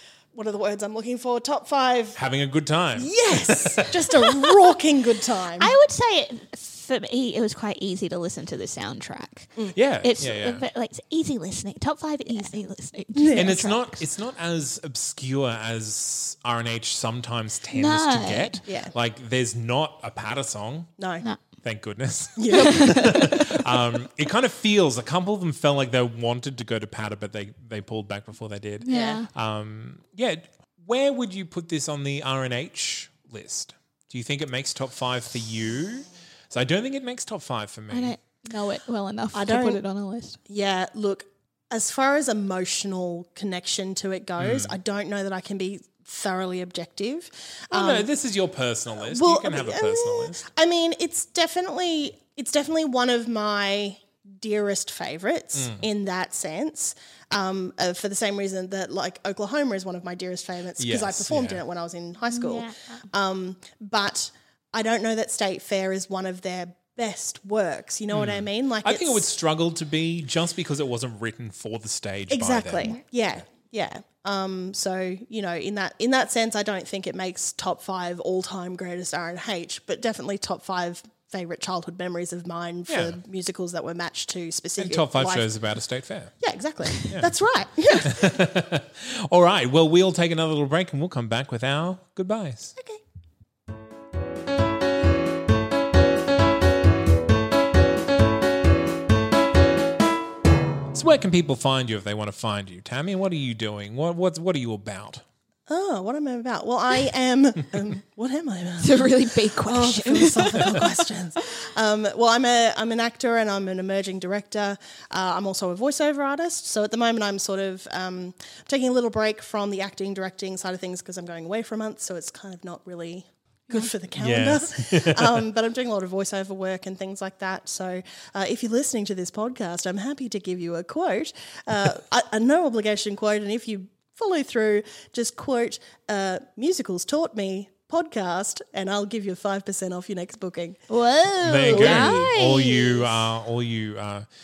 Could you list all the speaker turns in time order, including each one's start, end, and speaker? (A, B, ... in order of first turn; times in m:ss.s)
0:00.3-0:02.2 A
0:02.2-0:04.3 B
0:03.0-0:05.7 A
0:05.6-0:14.1 C
0:09.8-0:10.6 B
0:13.2-0:13.6 A
0:13.4-0:20.9 B
0:17.8-0:18.6 C
0:18.7-0:18.9 A
0:21.0-0:21.3 A
0:21.6-0:38.2 B
0:22.4-0:23.3 A
0:22.5-0:23.6 C
0:28.8-0:29.3 C
0:28.9-0:29.2 A
0:37.9-0:40.4 C
0:39.3-0:39.8 A
0:40.5-0:48.1 A
0:44.4-0:44.8 B
0:47.7-0:50.5 B
0:49.0-1:09.3 A
0:55.6-0:55.8 B
1:00.8-1:01.6 B
1:02.3-1:03.0 C
1:08.1-1:12.9 B
1:12.3-1:25.5 A
1:22.9-1:23.2 B
1:24.8-1:26.3 B
1:26.4-1:28.4 A
1:27.9-1:32.7 B
1:32.8-1:33.0 A
1:40.9-1:45.2 B
1:45.7-2:20.8 A
1:48.8-1:50.8 C
2:04.2-2:05.4 B
2:20.9-2:23.1 C
2:21.4-2:24.2 B
2:21.7-2:22.3 A